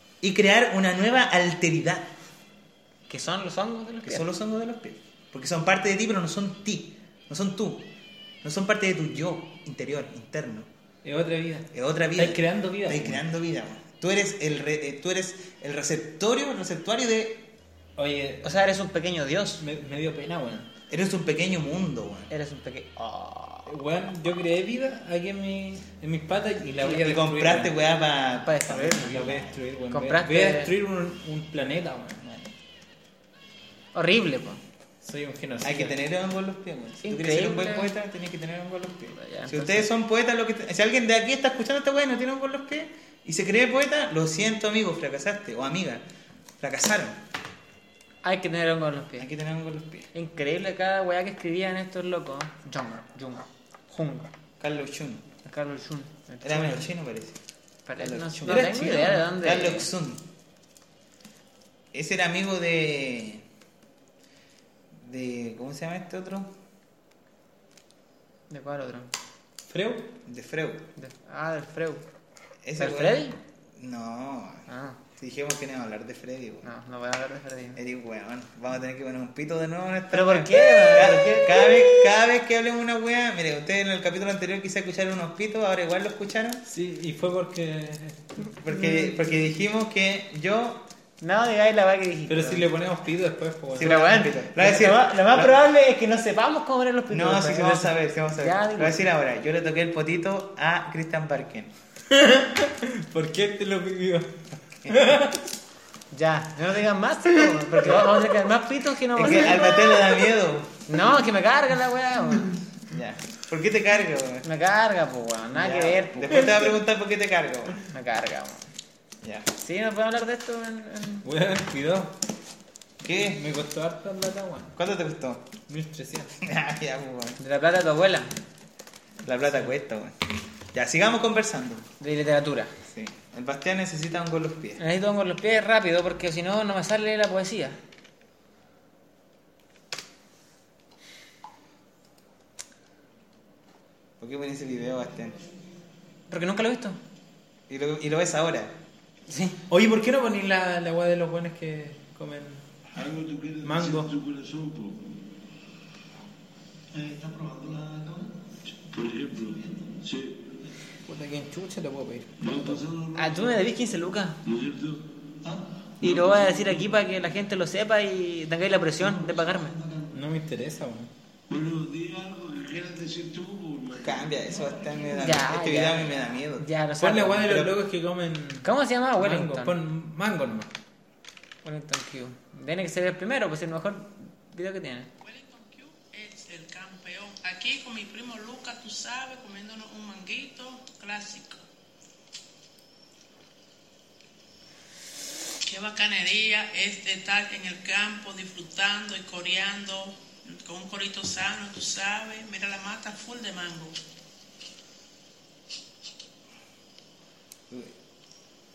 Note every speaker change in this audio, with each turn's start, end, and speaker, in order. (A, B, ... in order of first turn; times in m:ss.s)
0:00.2-0:02.1 A
0:03.1-0:04.2 B
0:04.0-0:07.9 A
0:08.4-0:10.7 A
0:11.0-0:13.2 C
0:11.7-0:17.5 A
0:18.0-0:18.4 C
0:18.4-0:19.6 B
0:19.6-0:20.7 C
0:20.9-0:22.3 A
0:22.3-0:23.7 B
0:23.7-0:27.7 C
0:26.8-0:29.6 A
0:28.4-0:29.2 B
0:29.1-0:32.2 C
0:29.9-0:30.7 B
0:32.2-0:32.5 A
0:33.9-0:34.6 B
0:35.0-0:35.9 C
0:35.6-0:46.0 A
0:37.0-0:37.9 B
0:39.2-0:39.9 B
0:46.6-0:47.2 A
0:48.2-0:49.3 B
0:49.2-0:50.1 A
0:50.1-0:54.3 B
0:54.6-0:55.2 A
0:55.4-0:56.9 B
0:56.4-0:57.4 A
0:57.8-0:59.9 B
0:58.0-1:00.2 A
0:58.0-0:59.2 C
1:01.9-1:03.4 A
1:05.0-1:06.5 A
1:08.5-1:09.1 B
1:09.7-1:10.1 C
1:10.2-1:10.8 A
1:11.0-1:12.0 B
1:12.6-1:16.7 A
1:12.8-1:13.4 B
1:14.7-1:15.0 B
1:16.6-1:17.8 B
1:17.8-1:26.6 A
1:20.1-1:22.1 B
1:26.7-1:28.3 C
1:28.6-1:30.8 A
1:31.2-1:32.6 B
1:32.3-1:33.9 C
1:33.8-1:35.6 A
1:33.8-1:39.0 B
1:37.1-1:41.7 A
1:42.1-1:44.4 C
1:44.9-1:45.4 C
1:46.1-1:49.8 B
1:49.1-1:50.8 A
1:50.9-1:52.6 B
1:52.9-1:54.4 A
1:54.4-1:56.6 B
1:55.5-1:57.8 A
1:57.9-1:58.7 B
1:59.2-1:59.5 A
1:59.6-2:01.3 B
2:01.2-2:02.1 C
2:03.0-2:03.4 A
2:03.3-2:04.7 C
2:04.8-2:05.5 A
2:05.7-2:06.3 C
2:06.4-2:07.4 A
2:07.4-2:08.3 B
2:09.2-2:10.2 A
2:10.7-2:11.9 A
2:12.0-2:12.7 B
2:12.8-2:14.8 A
2:14.8-2:17.8 B
2:24.2-2:25.4 A
2:26.3-2:27.0 B
2:27.7-2:28.7 A
2:29.3-2:29.6 B
2:29.7-2:32.6 C
2:32.9-2:35.1 D
2:33.6-2:34.1 C
2:36.9-2:40.6 D
2:41.0-2:42.8 C
2:42.4-2:43.7 D
2:43.1-2:44.4 B
2:44.4-2:46.8 D
2:46.0-2:49.7 B
2:49.0-2:50.2 D
2:50.1-2:51.1 C
2:51.5-2:55.2 D
2:54.0-2:56.7 A
2:55.1-2:57.6 B
2:57.0-3:00.7 C
2:57.4-2:57.7 A
2:58.6-2:59.7 B
3:01.6-3:05.1 B
3:05.2-3:11.6 E
3:15.6-3:24.0 E